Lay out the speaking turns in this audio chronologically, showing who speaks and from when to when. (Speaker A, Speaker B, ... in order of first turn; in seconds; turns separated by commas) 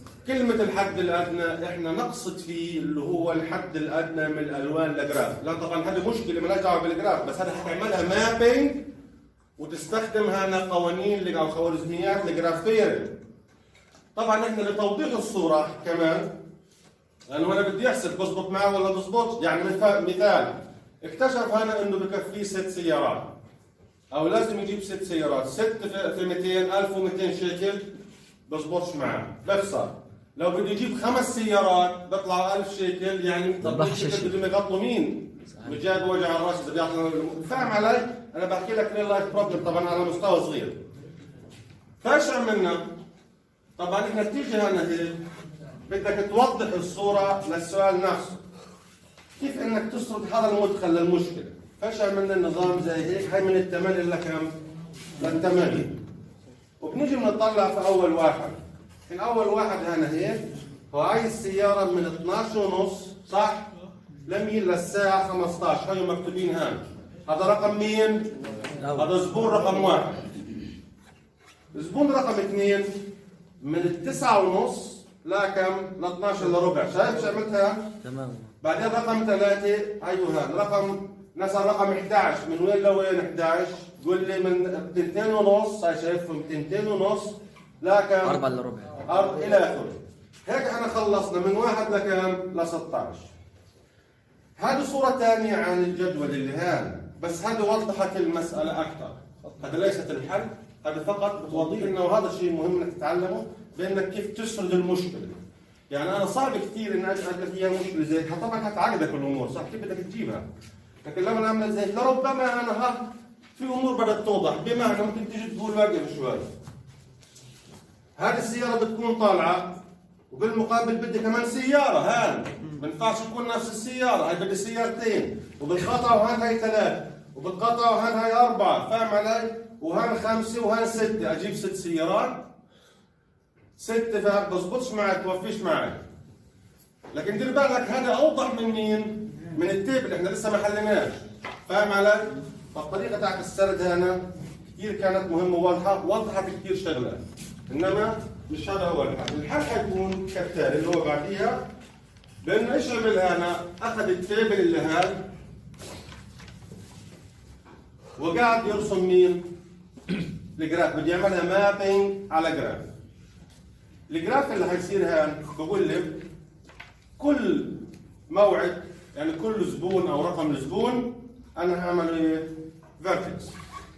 Speaker A: 0.2-8.9, Speaker A: 9.6-13.2, Speaker A: 14.2-16.3, Speaker A: 17.3-23.3, Speaker A: 24.1-27.8, Speaker A: 28.5-40.8, Speaker B: 33.6-34.4, Speaker A: 42.0-42.9, Speaker A: 43.8-45.2, Speaker A: 45.9-48.4, Speaker A: 49.4-54.5, Speaker A: 55.2-56.0, Speaker A: 56.8-63.7, Speaker A: 64.2-70.2, Speaker B: 68.8-69.1, Speaker A: 71.7-72.9, Speaker A: 73.6-77.9, Speaker B: 78.0-78.5, Speaker A: 78.6-88.4, Speaker B: 88.2-89.0, Speaker A: 89.0-93.3, Speaker A: 94.6-105.4, Speaker A: 105.9-110.5, Speaker A: 111.0-116.5, Speaker A: 118.2-119.8, Speaker A: 120.3-132.5, Speaker A: 133.8-136.0, Speaker A: 137.1-144.2, Speaker A: 144.7-151.6, Speaker A: 152.4-155.2, Speaker A: 158.2-159.5, Speaker A: 160.6-162.9, Speaker A: 164.1-166.2, Speaker A: 167.2-173.5